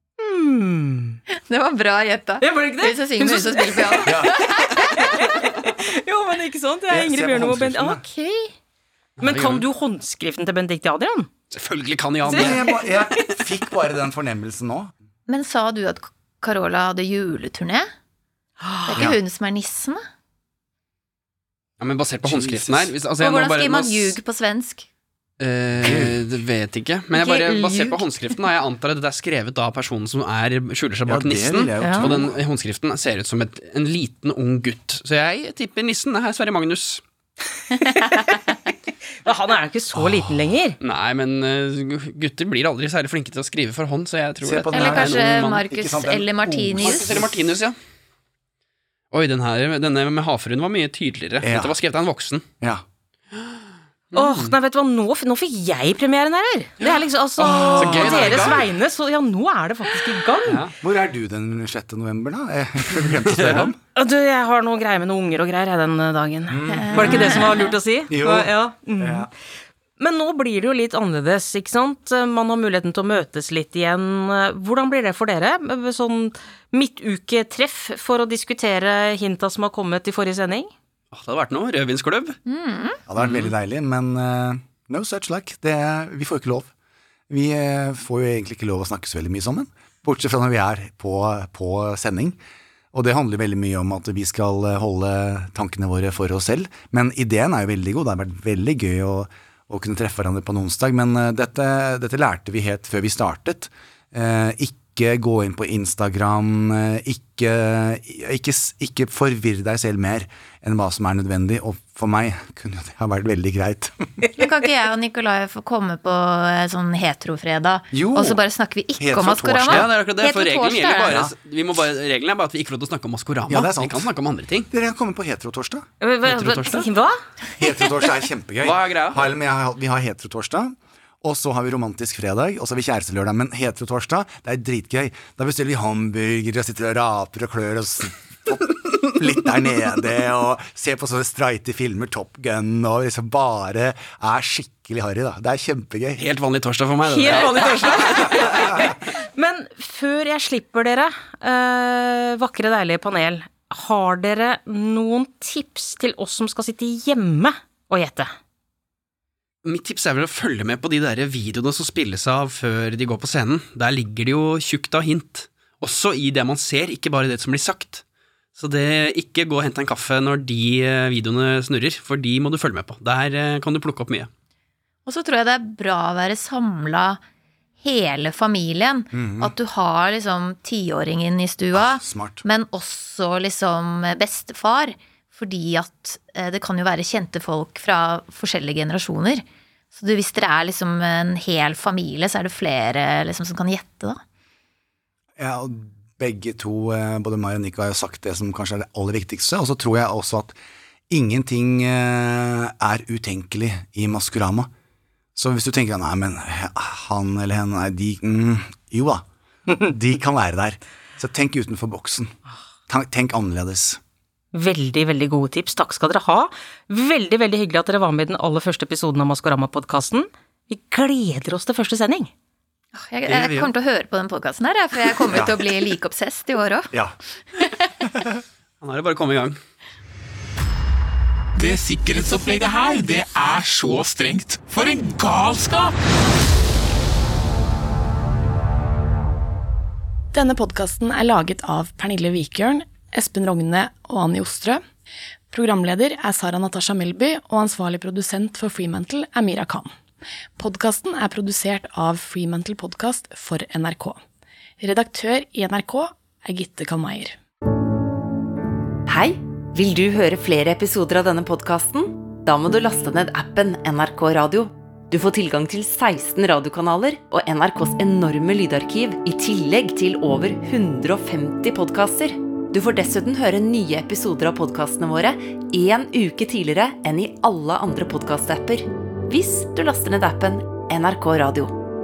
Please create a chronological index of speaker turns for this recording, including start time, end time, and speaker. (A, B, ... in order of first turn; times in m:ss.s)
0:00.2-0:01.2 A
0:01.4-0:05.0 B
0:02.4-0:08.5 A
0:04.0-0:04.6 C
0:06.9-0:08.0 C
0:09.2-0:09.7 D
0:09.2-0:11.3 A
0:11.5-0:12.7 D
0:12.2-0:13.3 A
0:12.3-0:14.9 C
0:15.3-0:17.9 B
0:18.6-0:19.0 A
0:18.9-0:20.0 B
0:21.8-0:24.2 D
0:22.2-0:23.0 C
0:23.2-0:24.9 B
0:25.4-0:37.0 D
0:25.8-0:26.2 C
0:27.3-0:28.0 B
0:31.1-0:32.4 C
0:31.8-0:32.1 A
0:37.9-0:38.6 A
0:39.2-0:40.8 A
0:40.0-0:40.5 C
0:40.8-0:45.6 D
0:44.4-0:47.3 C
0:44.7-0:47.2 B
0:46.8-0:47.8 D
0:49.1-0:52.4 D
0:51.4-0:51.8 C
0:54.1-0:54.5 D
0:54.1-1:00.6 A
0:56.8-0:58.7 D
0:57.4-0:58.7 C
1:00.5-1:00.7 D
1:00.8-1:03.8 C
1:03.2-1:03.7 D
1:04.0-1:09.3 A
1:06.5-1:07.5 C
1:06.7-1:07.7 B
1:08.1-1:09.3 C
1:10.0-1:20.7 A
1:21.1-1:22.4 D
1:22.5-1:23.0 B
1:23.1-1:26.7 C
1:23.2-1:23.5 D
1:27.3-1:32.4 C
1:32.9-1:54.3 C
1:54.3-2:01.2 B
1:57.9-1:58.4 C
1:59.0-2:00.0 C
1:59.7-2:04.7 D
2:01.0-2:01.4 C
2:03.5-2:04.1 C
2:04.7-2:05.9 C
2:06.0-2:07.2 A
2:06.2-2:06.9 D
2:07.6-2:26.2 C
2:08.6-2:09.3 D
2:26.2-2:29.0 D
2:27.1-2:38.3 A
2:39.6-2:48.0 D
2:48.6-2:54.3 D
2:55.1-2:57.2 B
2:57.8-3:14.2 B
2:59.1-2:59.5 C
3:01.7-3:02.4 C
3:15.4-3:20.6 C
3:21.1-3:24.7 C
3:25.4-3:29.2 C
3:29.8-3:32.4 C
3:32.9-3:34.0 C
3:34.5-3:42.3 A
3:43.0-3:46.9 B
3:43.3-3:43.7 D
3:45.3-3:45.6 C
3:47.6-3:47.9 B
3:48.1-3:48.4 C
3:48.8-3:49.6 D
3:51.6-3:56.0 E
4:00.3-4:04.8 F
4:05.5-4:10.0 F
4:10.6-4:14.2 F
4:14.8-4:17.4 F
4:19.1-4:41.8 G